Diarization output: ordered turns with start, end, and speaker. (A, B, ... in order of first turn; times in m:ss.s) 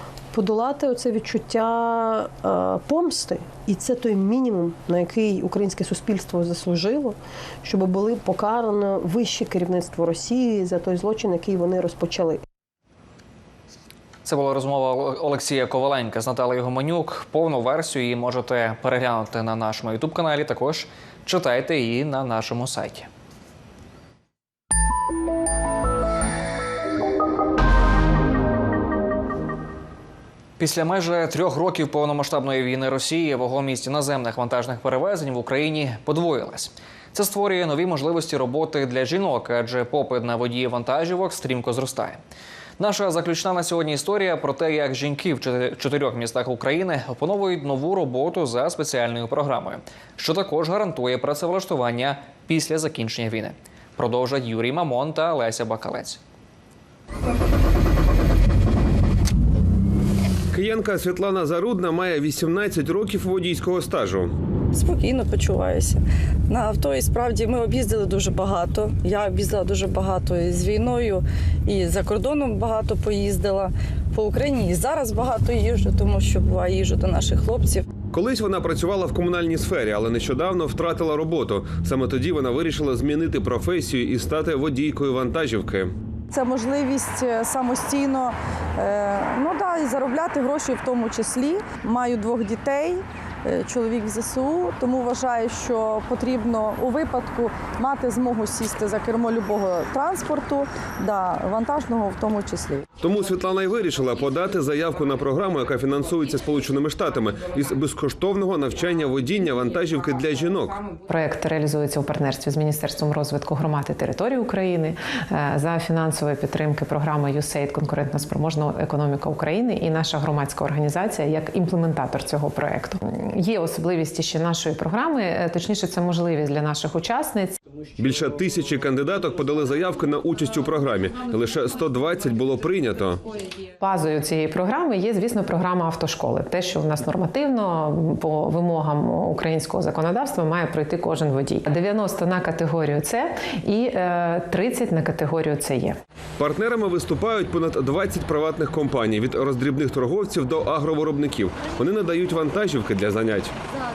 0:00.3-0:12.4 A
0:14.2-0:23.1 B
0:30.6-0:42.2 B
0:42.8-0:56.2 B
1:00.5-1:04.3 C
1:04.7-1:17.9 D
1:18.1-1:25.9 C
1:26.3-1:42.9 D
1:43.0-1:50.9 C
1:51.1-2:07.6 E
2:08.0-2:13.2 C
2:13.8-2:26.0 E
2:26.4-2:33.5 C